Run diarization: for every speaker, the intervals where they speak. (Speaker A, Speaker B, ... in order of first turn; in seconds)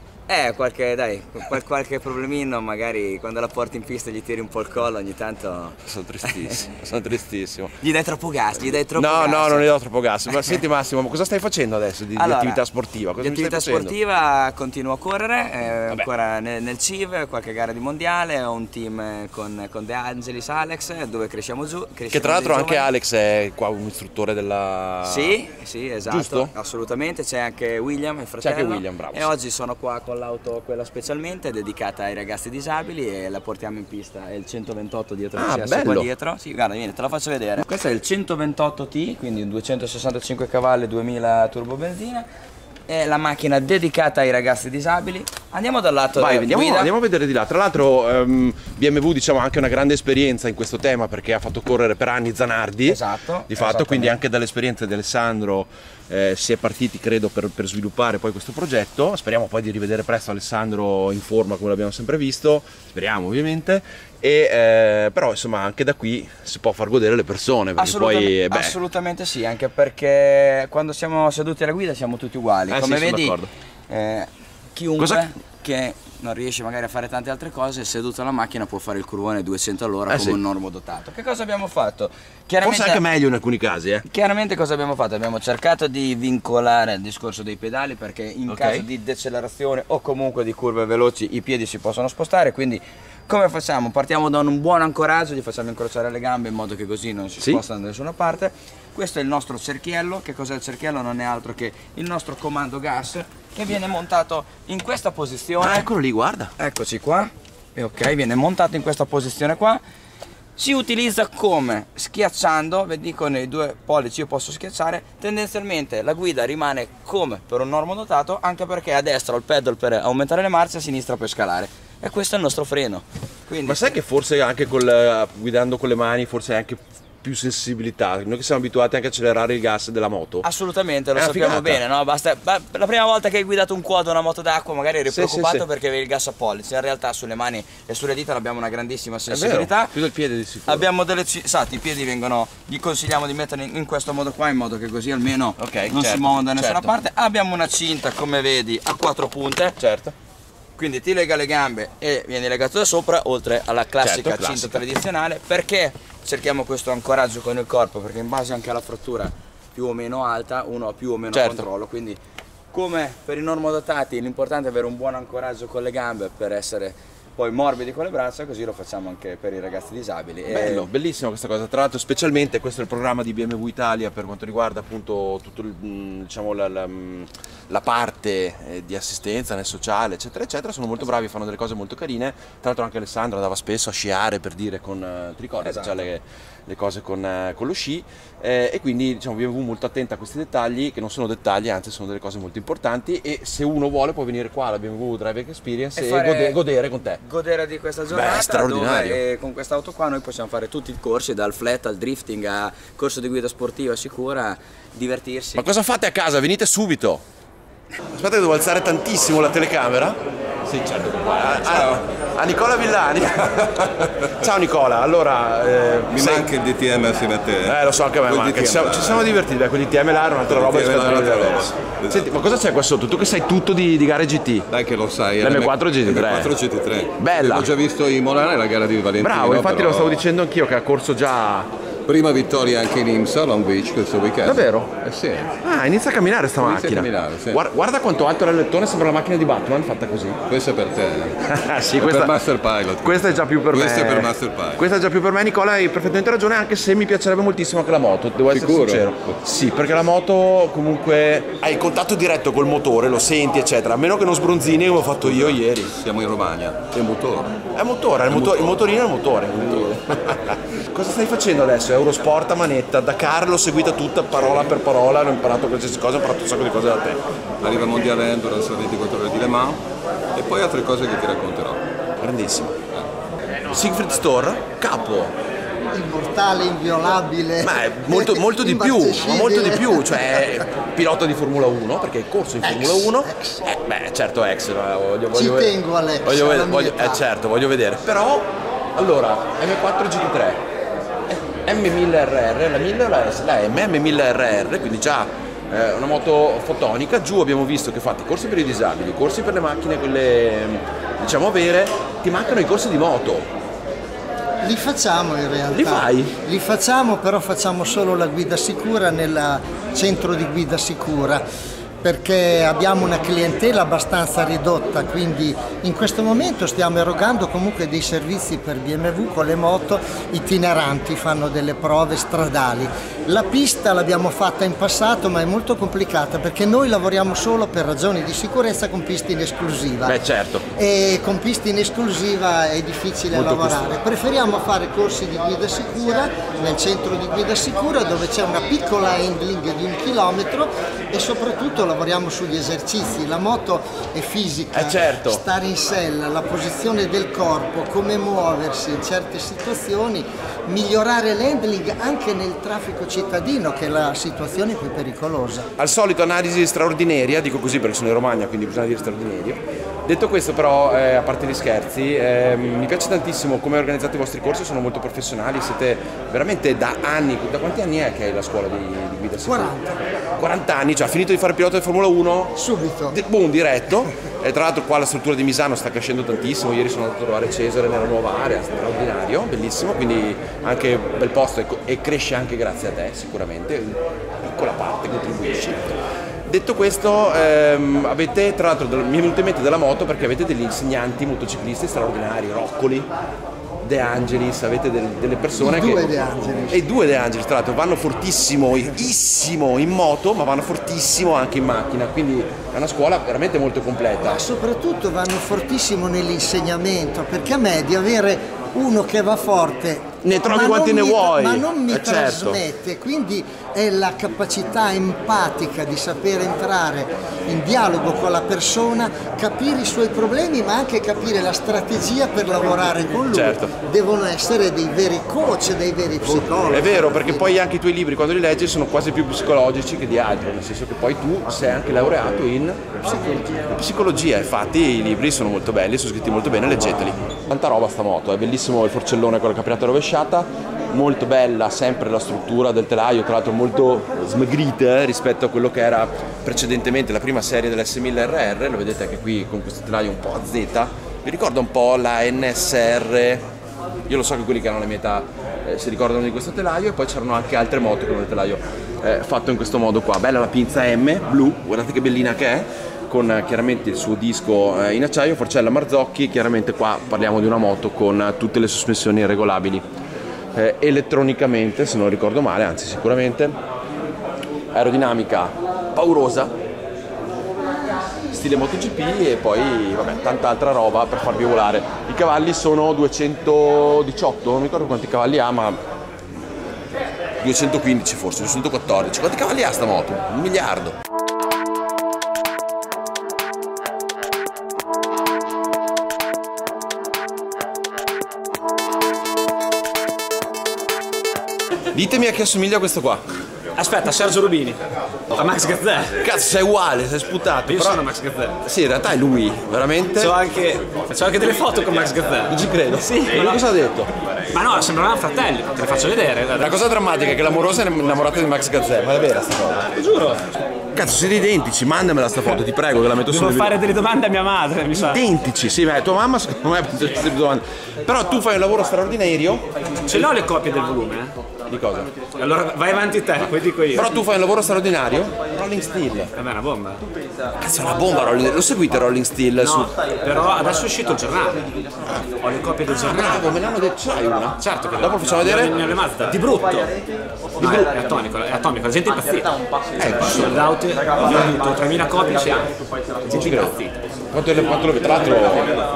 Speaker A: 0.3-6.5, 7.8-9.7, 12.2-12.6, 13.2-22.9, 25.0-42.3, 42.9-46.9, 52.9-54.2, 67.8-73.3, 73.9-83.0, 84.0-105.8, 106.6-109.8, 110.6-123.9, 130.4-139.9, 140.7-149.8, 150.8-162.2, 162.7-170.8, 185.6-186.0, 195.9-196.6, 197.2-205.7
Speaker B: 5.8-7.8, 8.9-13.9, 22.1-25.4, 26.1-26.5, 28.4-29.3, 35.3-36.1, 46.1-68.8, 72.7-73.5, 75.0-75.2, 80.1-80.4, 82.6-84.0, 88.5-88.8, 105.6-106.5, 123.7-130.4, 131.2-131.8, 135.1-135.6, 139.3-140.9, 145.6-146.9, 149.8-150.1, 154.0-154.8, 161.3-161.7, 170.5-197.2, 198.1-199.2, 205.6-207.2, 208.1-216.5, 217.6-224.7, 225.4-226.5, 227.2-227.7, 229.2-231.7, 234.4-234.9, 235.6-240.4, 241.4-242.3, 243.0-255.9, 257.7-267.2, 272.2-272.8, 273.7-275.3, 277.6-290.6, 291.3-303.5, 305.7-306.3, 330.0-330.7, 333.3-333.9, 344.7-345.4, 355.8-385.9, 386.5-393.1, 393.8-404.4, 410.2-412.6, 423.3-423.7, 426.4-453.5, 454.1-469.8, 470.5-473.6, 474.7-476.5, 478.3-485.8, 487.4-491.0, 501.9-503.2, 506.2-508.1, 508.6-510.4, 512.5-514.1, 516.5-519.9, 520.9-523.8, 524.9-530.2, 531.7-532.1, 533.9-536.3, 537.6-539.9, 542.9-545.8, 547.6-547.9, 550.0-550.7, 553.3-553.8, 554.3-555.7
Speaker C: 211.6-212.0, 216.1-219.3, 220.5-222.4, 224.7-230.2, 232.1-235.5, 236.6-237.6, 240.5-241.4, 242.0-244.8, 248.5-249.4, 255.2-257.6, 258.3-258.9, 259.5-260.0, 267.6-269.8, 270.3-271.8
Speaker D: 275.9-280.6, 282.6-283.6, 285.3-287.2, 304.6-311.4, 312.0-330.2, 330.7-355.7, 369.4-369.9, 372.5-373.2, 395.6-396.8, 404.2-427.5
Speaker E: 503.8-506.2, 507.7-508.6, 510.1-513.6, 514.5-516.8, 519.9-520.5, 523.2-525.2, 530.0-531.3, 532.4-534.1, 536.3-537.0, 539.6-541.7, 542.3-543.5, 544.6-546.9, 547.6-549.6, 550.2-552.8, 553.3-553.9